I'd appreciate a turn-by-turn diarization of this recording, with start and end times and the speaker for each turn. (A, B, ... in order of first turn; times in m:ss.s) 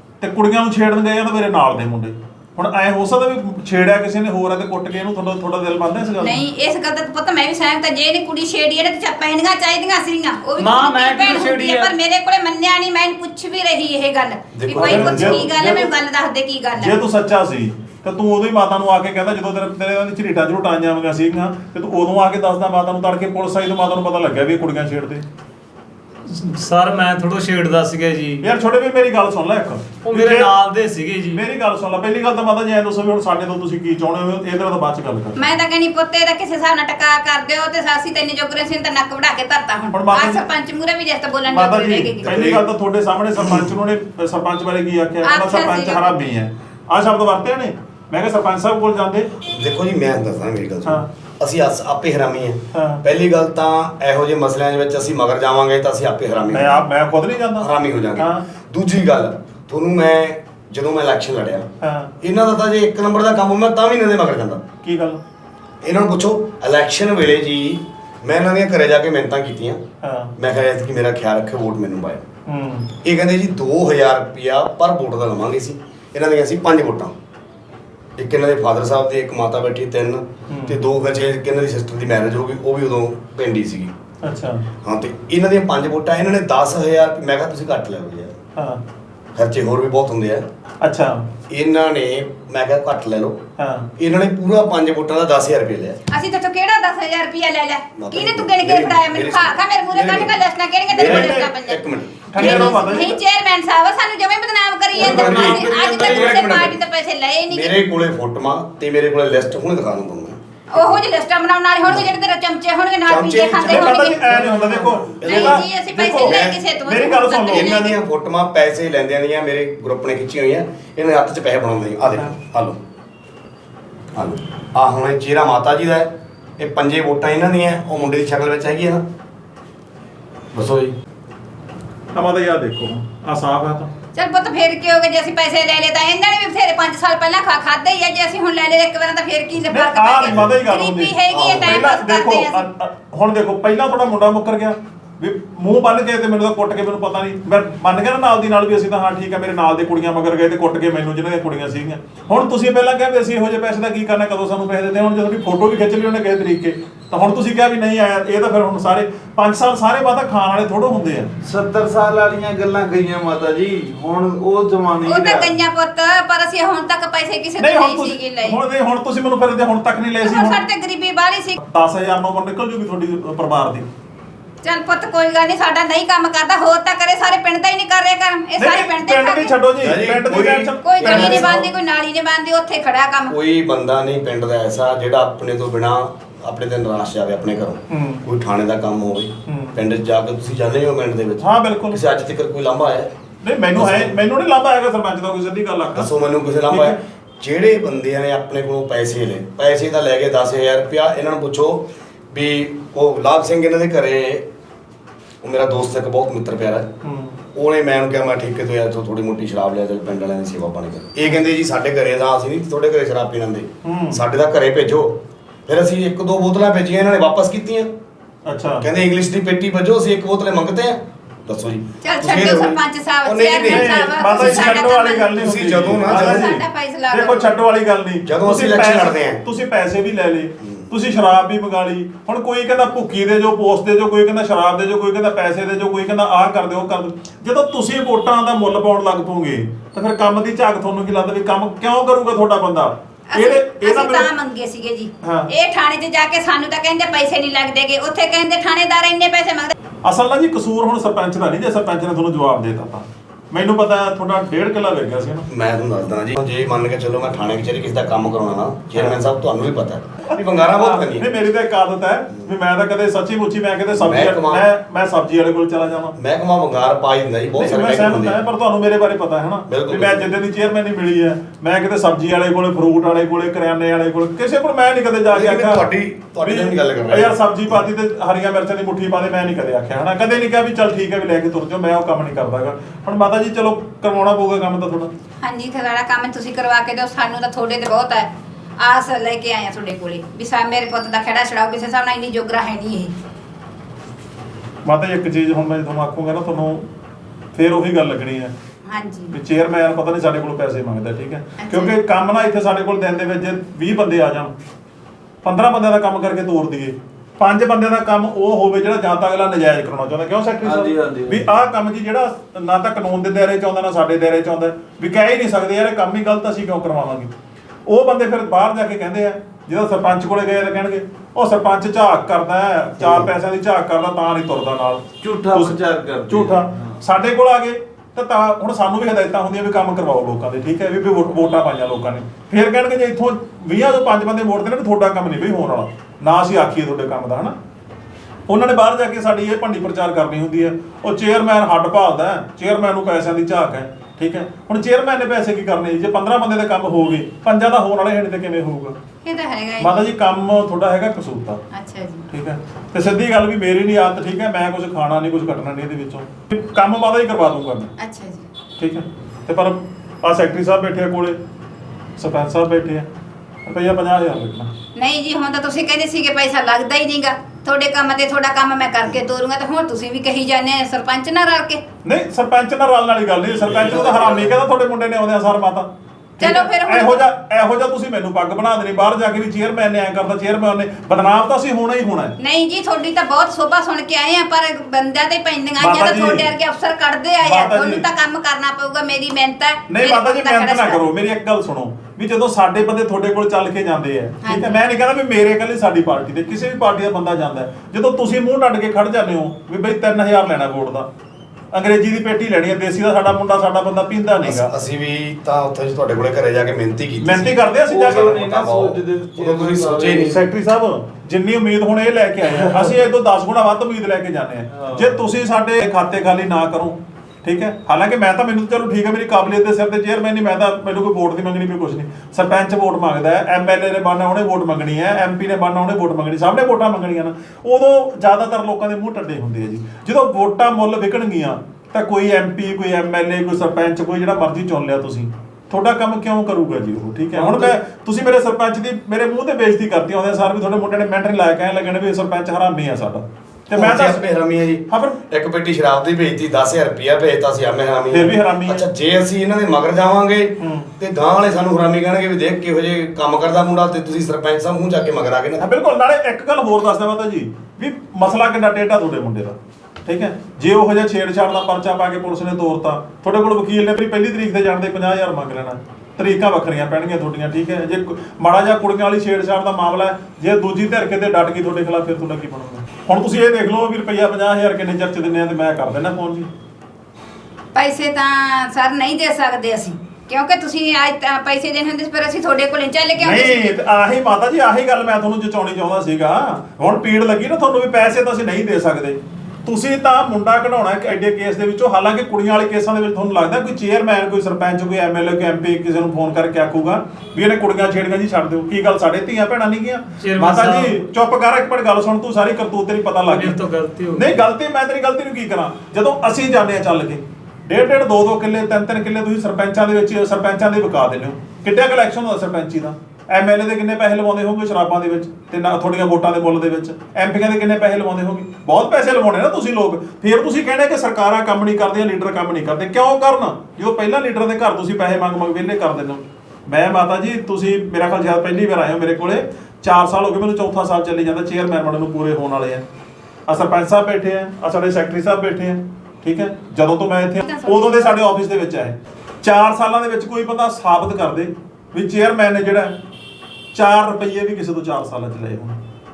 0:00.2-0:06.4 A
0:06.2-0:17.0 B
0:10.6-0:11.9 C
0:14.5-0:15.8 D
0:14.7-0:15.9 A
0:16.7-0:25.2 A
0:26.3-0:28.4 C
0:28.4-0:30.5 A
0:30.0-0:31.4 C
0:31.3-0:35.4 A
0:35.4-0:42.5 B
0:39.9-0:40.4 A
0:41.5-0:49.3 A
0:42.3-0:42.6 D
0:43.4-0:43.6 D
0:45.2-0:46.1 B
0:49.4-0:56.8 D
0:52.7-0:53.0 A
0:56.5-0:58.4 A
0:57.6-1:01.7 D
1:01.8-1:02.1 A
1:02.2-1:04.6 D
1:04.8-1:05.2 A
1:05.8-1:09.8 D
1:10.0-1:10.3 A
1:10.4-1:12.2 D
1:12.5-1:12.9 A
1:13.0-1:17.1 D
1:18.2-1:23.9 D
1:20.5-1:20.8 A
1:24.2-1:24.6 A
1:24.8-1:28.4 D
1:28.6-1:28.8 A
1:29.3-1:30.4 D
1:30.8-1:31.2 A
1:31.5-1:33.4 D
1:33.6-1:33.9 A
1:34.0-1:36.0 D
1:36.1-1:41.8 B
1:38.0-1:40.4 D
1:40.9-1:43.0 D
1:40.9-1:41.5 A
1:42.3-1:43.2 A
1:42.4-1:47.7 B
1:44.9-1:46.8 D
1:45.0-1:46.4 C
1:45.0-1:46.6 A
1:47.5-1:51.0 D
1:50.7-1:54.3 B
1:53.0-1:56.6 D
1:53.6-1:57.8 A
1:55.2-1:57.9 B
1:57.5-2:02.8 D
2:04.1-2:09.0 D
2:10.5-2:10.9 D
2:12.1-2:13.9 A
2:14.1-2:22.6 B
2:19.7-2:41.3 A
2:20.3-2:20.5 D
2:21.3-2:21.8 D
2:41.4-2:45.6 E
2:45.0-2:48.6 B
2:47.6-2:50.6 A
2:50.2-2:51.6 B
2:51.6-2:53.9 A
2:54.6-2:59.6 B
2:58.6-3:01.6 A
2:59.8-3:01.6 D
3:00.8-3:03.3 B
3:03.3-3:13.1 D
3:07.9-3:08.2 A
3:09.5-3:09.8 A
3:11.4-3:12.0 A
3:13.4-3:16.1 A
3:13.7-3:14.2 D
3:16.0-3:24.5 D
3:16.7-3:17.0 A
3:25.4-3:26.9 D
3:27.0-3:27.4 A
3:27.5-3:37.9 D
3:33.8-3:34.2 A
3:38.4-3:38.8 A
3:38.8-3:46.6 D
3:42.0-3:45.4 B
3:43.6-4:04.3 A
3:46.0-3:47.5 B
3:48.2-3:49.4 D
4:03.3-4:09.7 B
4:05.2-4:05.5 A
4:10.0-4:15.5 A
4:15.5-4:21.3 D
4:20.3-4:26.1 A
4:23.9-4:24.6 D
4:26.2-4:28.4 D
4:27.6-4:35.9 A
4:29.7-4:30.3 D
4:35.3-4:37.8 D
4:36.4-4:45.1 A
4:45.4-4:53.1 B
4:54.8-4:56.9 A
4:57.5-4:58.5 A
4:58.8-4:59.4 B
4:59.3-5:04.5 A
5:01.6-5:02.0 B
5:05.4-5:17.3 A
5:10.6-5:11.5 E
5:17.9-5:37.6 A
5:23.0-5:23.3 D
5:25.2-5:27.0 E
5:38.5-5:49.0 A
5:49.2-5:50.0 B
5:49.8-5:51.6 A
5:51.7-5:52.3 B
5:52.3-5:57.9 A
5:58.0-5:58.4 B
5:58.8-6:01.4 A
6:02.2-6:03.1 A
6:03.6-6:04.7 A
6:05.0-6:11.8 B
6:12.0-6:22.4 A
6:13.6-6:14.6 D
6:16.4-6:17.2 B
6:22.4-6:31.0 B
6:25.8-6:26.5 A
6:27.4-6:28.0 A
6:29.9-6:41.1 A
6:34.4-6:34.7 B
6:41.7-6:44.7 A
6:44.4-6:50.4 D
6:47.2-6:48.4 A
6:47.9-6:50.5 E
6:50.2-7:24.2 A
6:52.5-6:53.0 E
6:54.7-6:55.2 E
7:17.3-7:17.8 D
7:23.7-7:35.6 D
7:24.9-7:25.2 A
7:28.1-7:28.8 A
7:30.6-7:30.9 A
7:35.6-7:56.5 A
7:57.7-8:03.7 B
8:03.2-8:23.6 A
8:20.2-8:21.0 C
8:23.3-8:24.3 C
8:24.1-8:52.8 A
8:53.5-9:03.0 A
8:57.4-8:58.2 B
9:03.7-9:05.8 A